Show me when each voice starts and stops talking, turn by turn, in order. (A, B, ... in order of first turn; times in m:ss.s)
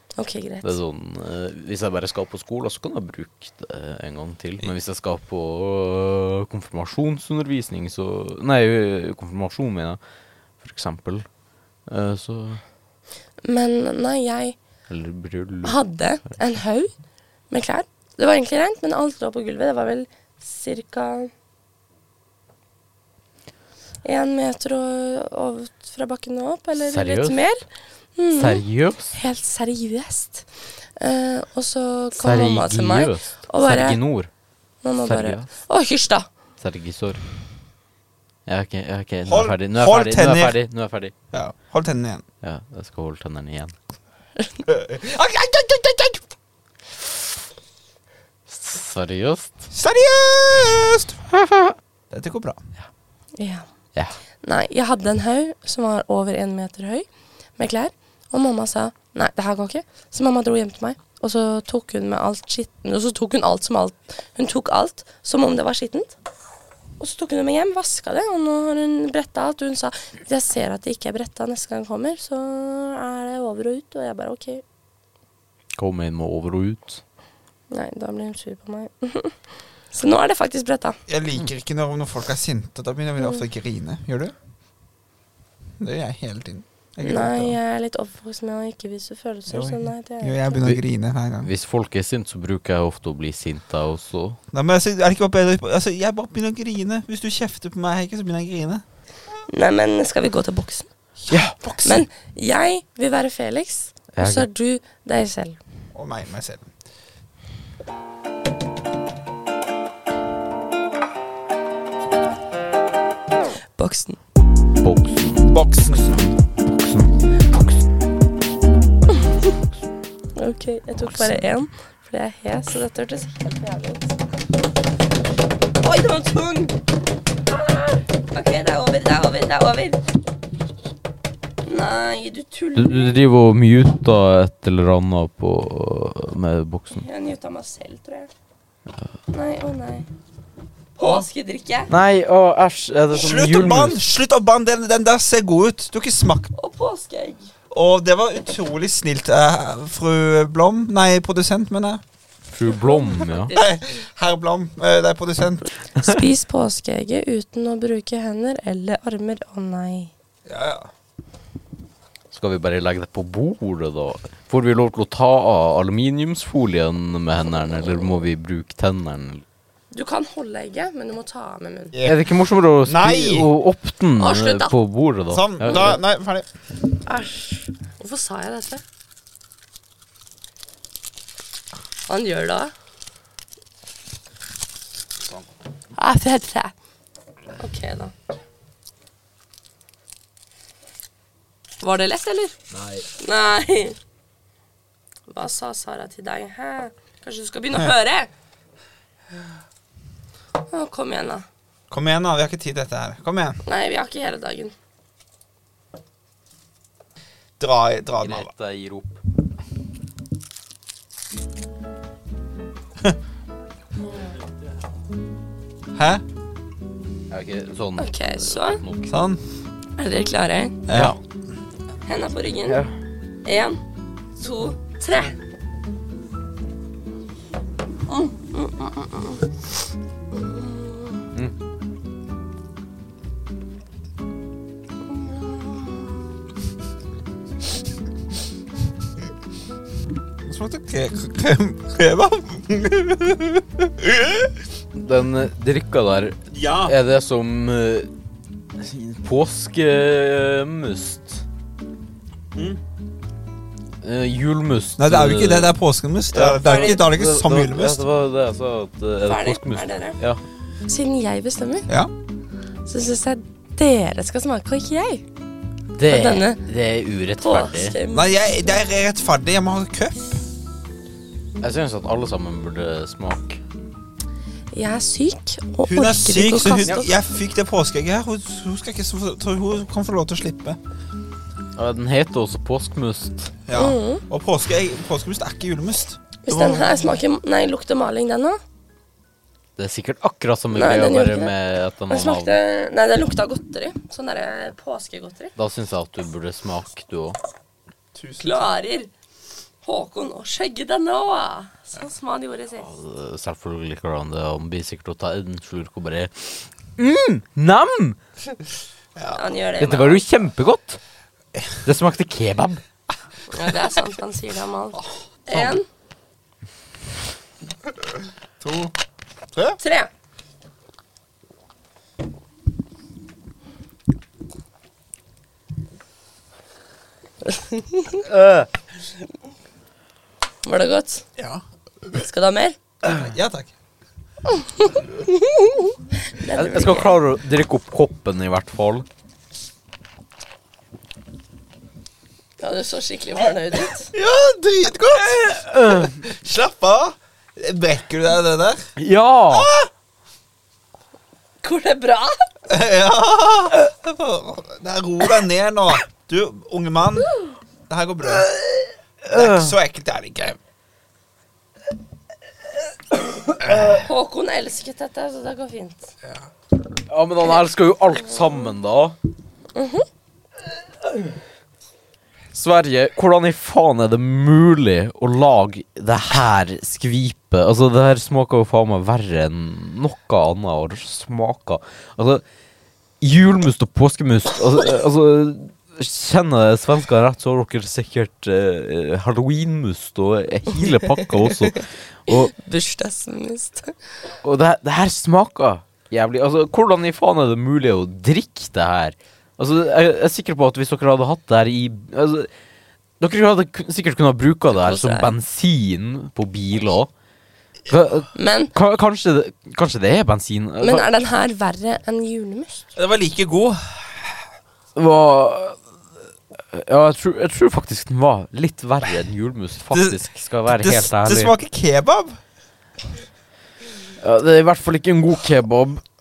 0:00.2-0:00.8 A
0:00.6-0:10.0 B
0:10.6-0:11.3 B
0:11.9-0:12.6 B
0:13.4-0:14.6 A
0:14.9-0:15.8 B
0:15.6-0:16.9 A
0:17.5-0:21.3 A
0:24.0-0:27.6 A
0:26.8-0:27.4 B
0:28.2-0:28.6 A
0:28.4-0:29.2 B
0:29.1-0:34.0 A
0:32.2-0:34.3 B
0:34.8-0:36.3 A
0:35.0-0:35.5 B
0:36.6-0:37.2 B
0:38.5-0:41.1 B
0:39.3-0:40.6 C
0:41.3-0:42.2 C
0:42.4-0:43.8 B
0:44.6-0:46.3 C
0:48.5-0:49.6 B
0:49.7-0:51.2 C
0:51.3-0:51.8 B
0:52.1-0:52.6 C
0:53.4-0:53.7 A
0:54.4-1:06.2 A
1:07.0-1:14.6 A
1:15.8-1:17.0 B
1:17.7-1:19.4 A
1:19.9-1:21.0 A
1:21.1-1:24.3 C
1:25.8-1:27.6 C
1:27.0-1:30.6 A
1:29.5-1:31.5 C
1:31.4-1:34.4 B
1:34.5-1:38.8 C
1:39.5-1:40.9 A
1:41.2-1:42.0 C
1:41.3-1:41.6 B
1:41.8-1:45.6 A
1:44.2-1:44.5 B
1:45.9-1:46.7 C
1:53.8-1:54.2 A
1:54.8-1:57.8 B
1:55.5-1:56.3 C
2:00.4-2:04.2 A
2:05.8-2:06.8 A
2:07.5-2:10.0 A
2:11.6-2:13.2 A
2:12.8-2:17.0 B
2:17.0-2:18.3 A
2:19.3-2:20.1 A
2:21.0-2:21.9 A
2:21.0-2:21.3 C
2:21.9-2:24.0 B
2:23.1-2:26.5 C
2:26.6-2:27.5 A
2:27.7-2:32.0 C
2:32.5-2:33.5 B
2:32.8-2:33.8 A
2:33.5-2:35.7 C
2:36.0-2:40.1 A
2:40.5-2:40.9 C
2:42.3-2:49.4 B
2:49.9-2:52.0 A
2:51.9-2:52.3 C
2:52.0-2:56.0 B
2:52.8-2:53.5 C
2:54.2-2:54.8 A
2:55.3-2:56.5 C
2:57.1-2:58.8 A
3:02.1-3:02.7 A
3:06.0-3:06.7 A
3:07.6-3:08.1 A
3:11.8-3:12.6 A
3:12.7-3:13.0 B
3:13.2-3:14.0 A
3:15.3-3:18.3 A
3:20.7-3:21.4 A
3:21.9-3:23.6 C
3:23.6-3:24.7 A
3:27.6-3:28.5 C
3:28.2-3:29.2 B
3:36.0-3:36.2 C
3:37.3-3:39.1 B
3:38.0-3:38.8 A
3:39.1-3:39.4 C
3:40.0-3:40.8 A
3:40.9-3:41.2 C
3:42.1-3:42.8 A
3:43.4-3:43.8 A
3:44.4-3:45.4 A
3:48.1-3:49.5 A
3:50.4-3:51.2 A
3:55.2-3:56.0 A
4:00.4-4:04.6 C
4:05.0-4:08.1 B
4:06.5-4:07.0 C
4:08.8-4:11.4 B
4:12.6-4:12.8 C
4:14.0-4:15.8 B
4:15.0-4:18.0 C
4:16.3-4:20.4 B
4:16.6-4:17.0 A
4:19.2-4:20.2 A
4:20.9-4:21.9 A
4:22.8-4:25.2 A
4:26.0-4:28.0 B
4:26.0-4:26.6 A
4:27.4-4:28.4 A
4:28.1-4:30.4 C
4:31.6-4:33.6 B
4:34.7-4:37.1 A
4:35.9-4:40.8 C
4:41.8-4:43.5 B
4:43.7-4:47.2 C
4:43.7-4:44.2 A
4:46.4-4:48.6 A
4:49.8-4:52.6 B
4:50.7-4:51.5 A
4:52.1-4:55.5 A
4:55.6-4:57.4 B
4:58.2-4:58.7 C
4:58.4-4:59.1 A
4:59.8-5:02.9 A
5:02.8-5:08.2 B
5:09.3-5:10.2 A
5:09.8-5:11.0 B
5:11.8-5:12.8 B
5:13.5-5:15.9 A
5:15.5-5:15.8 C
5:18.6-5:19.0 C
5:19.5-5:19.8 C
5:19.8-5:20.1 A
5:27.4-5:28.2 A
5:28.2-5:28.7 B
5:30.6-5:31.3 A
5:31.4-5:31.6 C
5:32.1-5:32.8 A
5:33.0-5:33.7 C
5:34.5-5:37.2 A
5:36.5-5:39.1 B
5:42.6-5:44.1 A
5:44.1-5:48.9 C
5:45.2-5:46.2 B
5:49.0-5:49.7 B
5:49.5-5:49.9 C
5:51.6-5:52.5 A
5:52.7-5:57.3 C
5:57.9-5:58.5 C
5:59.2-5:59.8 B
5:59.3-6:00.6 C
6:03.7-6:06.1 A
6:07.1-6:09.2 B
6:09.8-6:10.1 A
6:12.5-6:22.4 B
6:23.2-6:32.5 B
6:31.8-6:33.9 A
6:34.4-6:42.5 B
6:43.2-6:47.1 B
6:44.7-6:45.3 A
6:47.9-6:51.1 B
6:48.4-6:48.7 A
6:50.8-6:52.8 A
6:53.0-6:54.4 C
6:55.0-6:55.8 B
6:56.7-7:01.5 B
6:59.9-7:02.4 C
7:04.2-7:06.0 B